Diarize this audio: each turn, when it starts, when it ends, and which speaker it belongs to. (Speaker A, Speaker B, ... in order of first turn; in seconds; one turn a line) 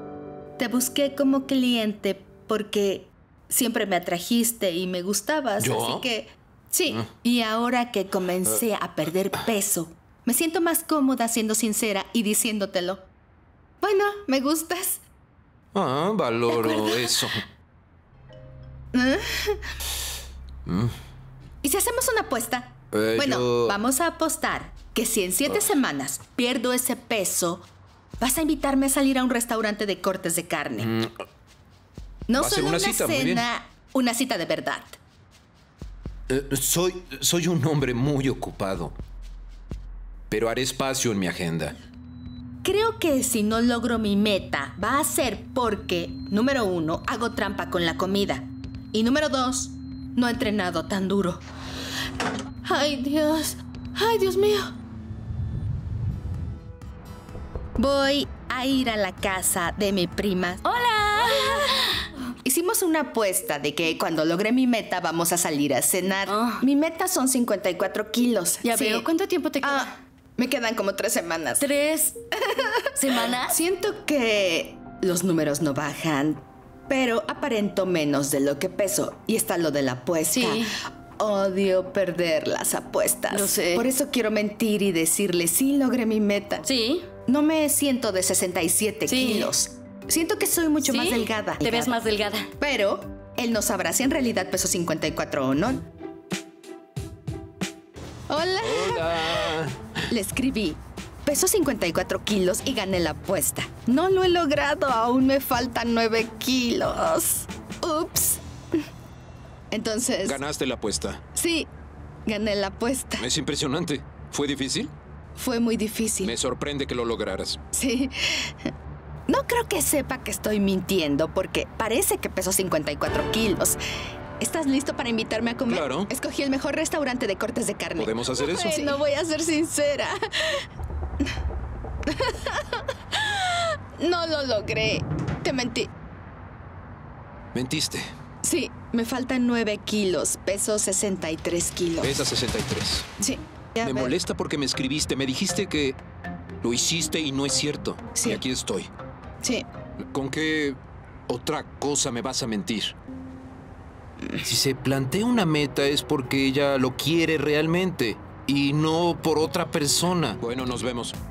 Speaker A: 0.6-13.1
Speaker B: 5.6-6.1
Speaker A: 13.8-15.0
Speaker B: 15.7-17.4
Speaker A: 16.5-17.2
Speaker A: 18.9-19.6
Speaker B: 20.7-20.9
Speaker A: 21.6-27.7
Speaker B: 22.9-23.8
Speaker A: 28.2-30.9
Speaker B: 30.8-31.1
Speaker A: 32.3-35.0
Speaker B: 32.4-33.5
Speaker B: 36.3-38.9
Speaker B: 40.3-41.8
Speaker A: 42.6-51.4
Speaker A: 52.6-54.7
Speaker A: 57.8-60.6
Speaker C: 60.6-62.1
Speaker A: 62.4-69.1
Speaker C: 66.3-66.6
Speaker C: 68.6-69.9
Speaker A: 69.6-71.7
Speaker C: 71.6-72.2
Speaker A: 72.5-86.7
Speaker C: 72.9-73.6
Speaker C: 80.3-80.7
Speaker C: 83.3-83.9
Speaker C: 86.6-87.1
Speaker A: 87.3-92.0
Speaker C: 89.1-89.5
Speaker C: 90.8-92.5
Speaker A: 92.6-95.9
Speaker A: 98.3-99.5
Speaker B: 98.6-99.9
Speaker A: 100.1-108.4
Speaker A: 109.7-110.4
Speaker B: 110.2-111.2
Speaker A: 111.3-111.7
Speaker A: 112.3-113.3
Speaker B: 113.2-114.9
Speaker A: 115.4-116.3
Speaker B: 116.2-117.6
Speaker A: 117.7-118.5
Speaker A: 119.3-123.8
Speaker A: 124.4-130.6
Speaker B: 125.7-126.1
Speaker B: 128.0-128.9
Speaker A: 132.1-135.9
Speaker B: 137.5-138.1
Speaker A: 138.4-142.3
Speaker B: 142.0-143.1
Speaker A: 143.2-144.2
Speaker B: 143.8-146.0
Speaker B: 146.6-148.9
Speaker A: 148.2-148.4
Speaker B: 150.1-152.9
Speaker B: 154.4-161.2